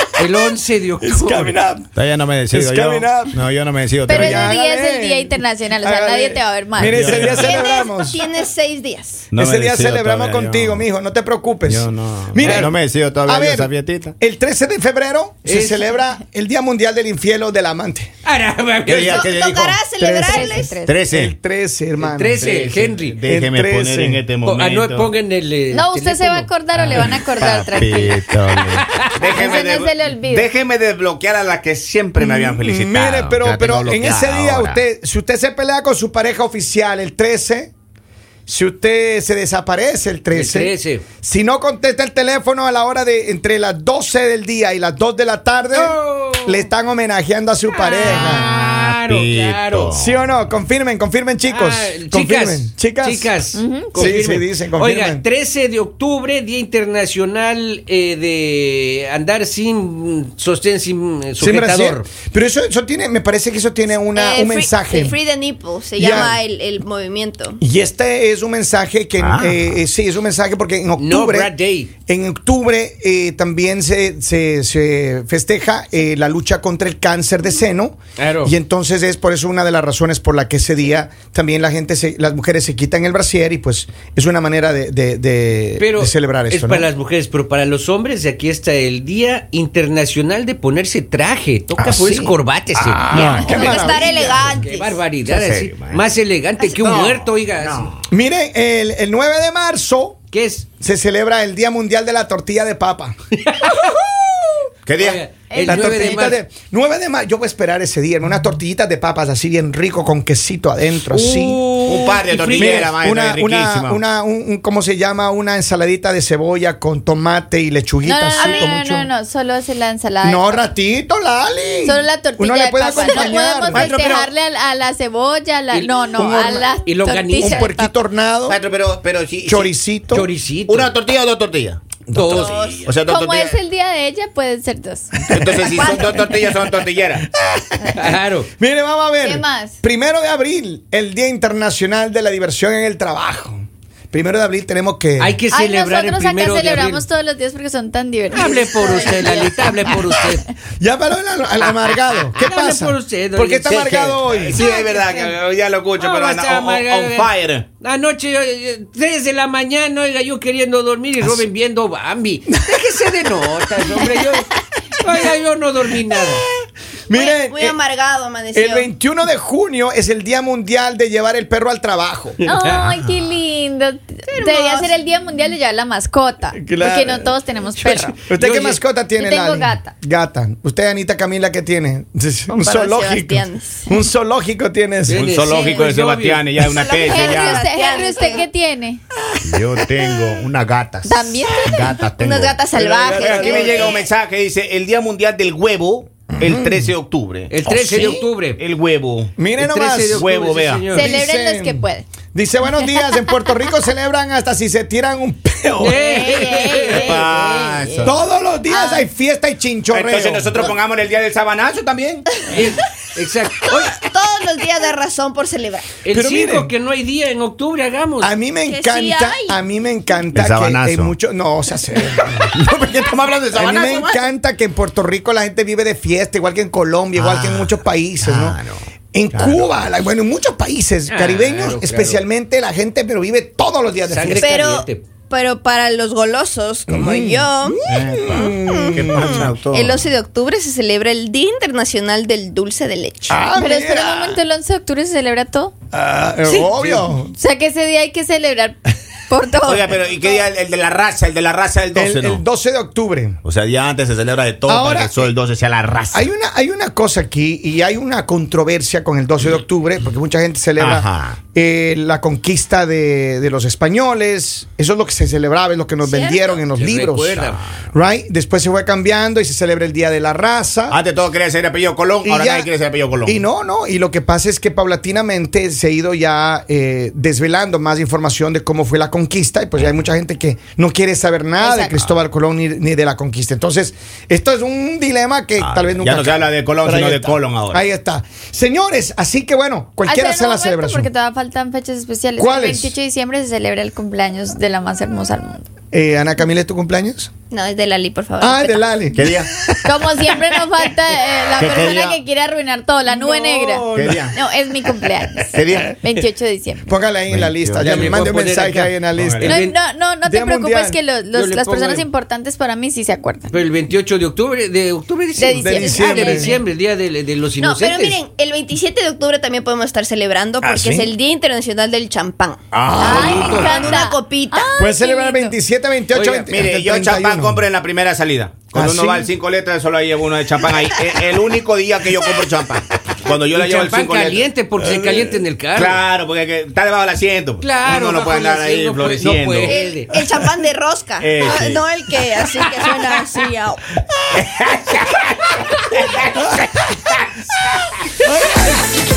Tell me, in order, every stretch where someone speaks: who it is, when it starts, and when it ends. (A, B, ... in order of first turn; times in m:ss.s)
0:00.2-0:01.6 A
0:01.0-0:01.9 B
0:02.0-0:04.5 C
0:02.5-0:03.4 B
0:04.1-0:07.1 D
0:04.1-0:08.2 B
0:06.8-0:07.6 C
0:07.3-0:09.3 E
0:09.3-0:10.9 C
0:09.4-0:12.8 B
0:11.7-0:14.2 C
0:12.4-0:12.7 A
0:13.3-0:18.1 B
0:15.4-0:15.9 A
0:18.2-0:19.3 A
0:18.9-0:19.8 C
0:18.9-0:20.8 E
0:20.0-0:22.4 B
0:20.2-0:21.0 D
0:20.8-0:21.3 C
0:22.0-0:23.2 A
0:22.4-0:25.1 C
0:23.3-0:24.2 B
0:24.4-0:27.2 A
0:25.7-0:28.3 D
0:26.8-0:34.8 C
0:28.5-0:29.4 A
0:29.3-0:30.5 D
0:32.2-0:37.7 B
0:38.5-0:48.5 B
0:40.3-0:41.0 A
0:45.7-0:46.7 A
0:47.8-0:50.0 A
0:48.3-0:50.2 C
0:49.9-0:53.4 B
0:51.5-1:02.1 A
0:53.5-0:54.1 D
0:53.9-0:55.2 B
1:01.4-1:05.2 B
1:04.2-1:07.6 E
1:06.0-1:06.4 B
1:07.6-1:11.5 B
1:09.2-1:09.7 C
1:11.0-1:11.9 A
1:12.1-1:26.9 B
1:18.2-1:18.6 A
1:25.8-1:37.9 A
1:31.8-1:34.5 B
1:33.1-1:35.0 E
1:35.3-1:36.0 C
1:36.7-1:38.0 C
1:38.1-1:40.2 B
1:40.3-1:40.7 A
1:40.8-1:43.2 B
1:43.4-1:44.1 A
1:44.9-1:45.2 C
1:45.0-1:46.4 A
1:45.5-1:46.1 D
1:45.6-1:51.7 B
1:51.1-1:53.0 A
1:51.9-1:54.0 C
1:52.5-1:59.1 B
1:58.0-2:00.7 D
1:58.4-1:58.7 E
2:00.2-2:04.3 B
2:01.8-2:08.0 D
2:02.9-2:04.2 E
2:05.7-2:06.1 A
2:06.2-2:06.8 B
2:06.8-2:07.7 A
2:07.4-2:08.6 B
2:08.5-2:09.7 C
2:09.4-2:10.3 B
2:10.1-2:11.0 A
2:10.7-2:11.9 C
2:12.1-2:12.6 B
2:12.1-2:12.8 A
2:12.3-2:12.9 E
2:12.8-2:13.6 C
2:13.0-2:15.2 D
2:15.3-2:17.3 C
2:15.3-2:15.6 B
2:15.6-2:16.2 E
2:17.4-2:25.4 B
2:18.0-2:18.5 A
2:19.2-2:19.8 D
2:25.2-2:27.1 A
2:25.5-2:29.8 D
2:28.3-2:30.5 A
2:30.8-2:34.6 B
2:31.7-2:35.4 A
2:33.9-2:37.7 C
2:36.0-2:44.5 A
2:42.5-2:42.8 B
2:45.0-2:46.5 A
2:47.1-2:47.8 B
2:47.1-2:48.9 E
2:48.5-2:52.4 B
2:52.4-2:58.2 D
2:52.5-2:52.9 A
2:54.3-2:55.0 E
2:56.6-3:05.3 B
2:58.4-2:58.8 A
2:59.2-2:59.9 D
3:02.5-3:03.8 E
3:05.1-3:06.6 A
3:05.1-3:07.6 C
3:06.6-3:08.4 E
3:07.0-3:09.0 D
3:09.4-3:19.4 C
3:11.0-3:12.0 D
3:12.2-3:14.1 E
3:12.7-3:13.9 B
3:16.3-3:16.9 B
3:17.5-3:18.6 A
3:17.7-3:18.3 B
3:19.4-3:20.2 B
3:19.6-3:21.1 A
3:20.1-3:20.9 C
3:20.9-3:22.1 D
3:21.0-3:26.4 B
3:22.8-3:23.3 D
3:25.8-3:27.2 A
3:25.9-3:27.9 D
3:26.9-3:28.2 C
3:28.0-3:30.8 B
3:28.7-3:29.1 D
3:29.9-3:32.4 C
3:32.5-3:34.0 A
3:33.9-3:35.9 E
3:36.0-3:38.3 A
3:36.1-3:36.7 B
3:38.2-3:42.6 B
3:38.6-3:39.6 E
3:40.3-3:41.2 C
3:42.5-3:44.3 C
3:43.4-3:48.6 B
3:47.2-3:49.8 C
3:49.1-3:54.5 B
3:51.1-3:52.2 A
3:54.0-3:55.0 A
3:54.4-3:57.9 E
3:56.9-3:59.4 B
3:57.9-4:00.1 C
3:58.4-4:03.4 E
4:03.3-4:04.4 B
4:03.5-4:05.7 D
4:05.9-4:07.4 B
4:06.4-4:07.0 A
4:07.4-4:10.4 D
4:09.6-4:12.4 C
4:12.0-4:13.4 B
4:13.4-4:16.3 C
4:14.7-4:15.3 B
4:16.1-4:31.0 B
4:20.8-4:21.4 C
4:26.0-4:26.6 E
4:26.7-4:27.6 A
4:30.9-4:33.4 C
4:32.2-4:32.7 B
4:33.2-4:51.1 B
4:41.6-4:42.1 D
4:45.6-4:47.8 C
4:50.0-4:55.7 D
4:52.4-4:53.0 B
4:55.9-4:57.3 B
4:57.5-4:59.0 E
4:58.4-5:00.0 B
4:59.1-4:59.5 C
4:59.8-5:07.0 D
5:01.6-5:02.2 C
5:03.1-5:04.3 B
5:03.9-5:04.3 C
5:05.5-5:05.9 C
5:06.9-5:09.6 B
5:07.3-5:08.2 C
5:07.8-5:09.8 A
5:09.2-5:09.5 C
5:09.4-5:13.5 D
5:10.2-5:11.0 B
5:11.3-5:12.1 A
5:13.5-5:18.2 A
5:15.4-5:16.6 D
5:15.6-5:16.5 B
5:17.6-5:24.8 E
5:20.6-5:21.1 B
5:22.7-5:23.7 B
5:23.0-5:25.6 D
5:24.8-5:27.6 B
5:26.1-5:26.5 A
5:26.5-5:34.5 C
5:28.7-5:29.3 B
5:33.5-5:36.0 A
5:34.8-5:35.3 B
5:35.8-5:39.8 C
5:37.6-5:40.1 A
5:39.6-5:43.8 E
5:41.2-5:41.8 C
5:44.3-5:47.0 C
5:48.3-5:48.7 B